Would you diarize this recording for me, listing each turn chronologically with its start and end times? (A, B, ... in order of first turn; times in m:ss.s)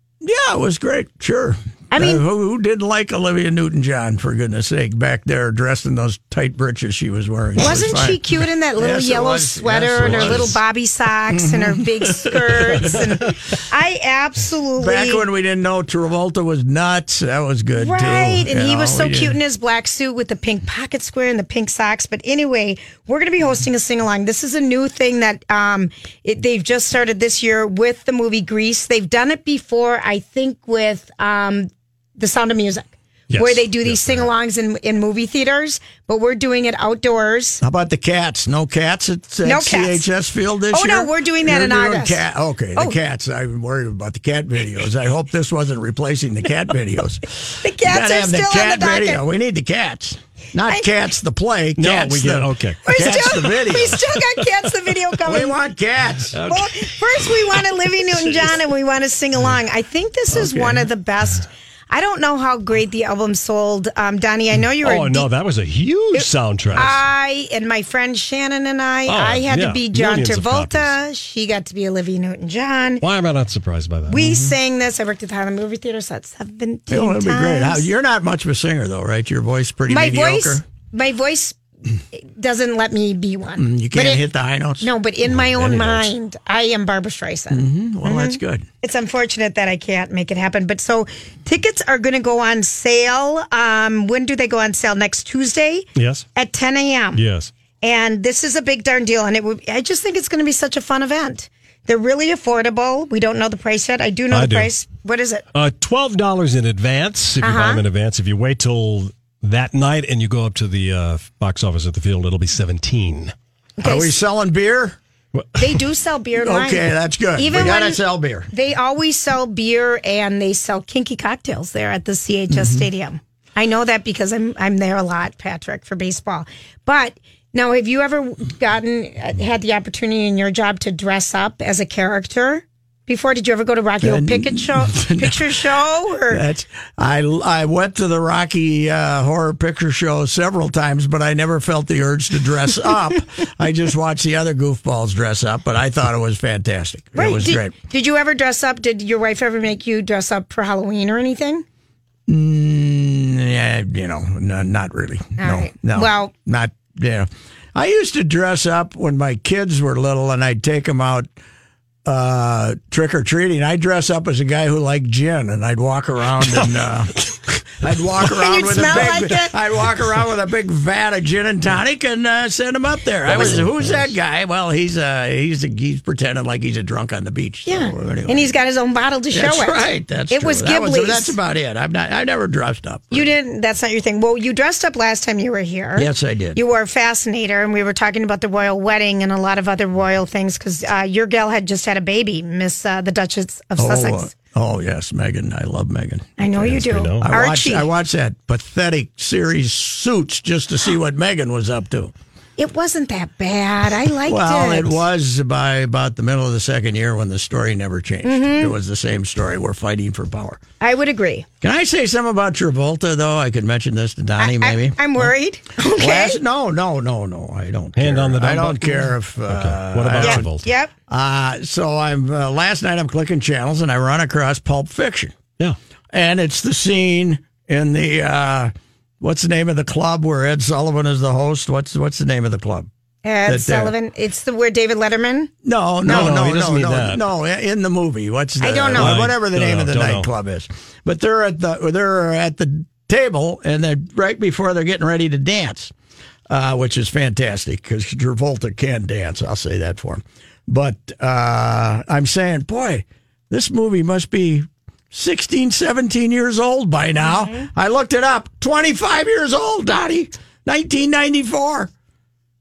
0:00.2-0:08.2 A
0:01.9-0:02.2 B
0:07.6-0:15.2 B
0:08.8-0:10.6 A
0:10.0-0:10.6 C
0:11.3-0:13.2 A
0:14.8-0:19.4 A
0:17.8-0:37.6 B
0:33.3-0:34.3 C
0:37.6-0:54.0 A
0:39.4-0:40.1 B
0:40.7-0:42.2 B
0:47.6-0:49.2 B
0:51.8-0:53.4 C
0:52.8-0:55.6 B
0:55.2-0:56.4 A
0:56.3-0:57.6 C
0:56.5-1:05.3 B
1:00.3-1:00.8 A
1:04.8-1:07.0 C
1:06.1-1:13.0 B
1:09.1-1:10.9 C
1:13.0-1:14.3 C
1:14.1-1:17.9 B
1:14.2-1:14.6 A
1:16.9-1:20.6 A
1:19.9-1:21.6 B
1:22.1-1:24.2 B
1:23.6-1:24.9 A
1:24.8-1:37.2 B
1:25.4-1:26.1 C
1:27.5-1:28.7 A
1:36.0-1:36.2 C
1:37.2-1:37.5 C
1:37.8-1:45.4 B
1:44.3-1:44.7 C
1:45.5-1:53.3 C
1:47.4-1:47.8 B
1:53.8-1:54.2 B
1:53.8-1:55.0 A
1:55.3-1:55.6 C
1:55.6-2:16.4 B
1:56.4-1:58.5 A
2:02.5-2:02.8 A
2:14.0-2:15.7 A
2:16.3-2:27.7 A
2:27.2-2:31.6 B
2:32.3-2:41.3 A
2:35.4-2:36.3 B
2:42.0-2:47.2 A
2:46.6-2:47.3 C
2:47.8-2:58.5 A
2:48.4-2:49.5 B
2:53.3-2:54.1 C
2:57.7-3:01.4 B
2:59.3-3:03.3 A
3:03.1-3:14.3 B
3:06.0-3:06.6 A
3:13.8-3:16.4 A
3:16.4-3:17.9 B
3:16.6-3:17.3 C
3:17.2-3:22.1 A
3:22.6-3:25.0 B
3:24.3-3:30.6 A
3:28.2-3:28.7 B
3:30.8-3:31.5 B
3:31.6-3:40.5 A
3:34.4-3:36.4 B
3:38.0-3:40.7 C
3:40.2-3:40.9 B
3:41.1-3:45.4 A
3:46.1-3:52.9 A
3:53.2-3:55.5 B
3:53.5-3:53.9 A
3:55.6-4:05.9 A
3:56.1-3:57.2 C
3:58.6-3:59.2 B
3:59.0-4:00.3 C
4:06.5-4:21.9 A
4:17.4-4:17.7 B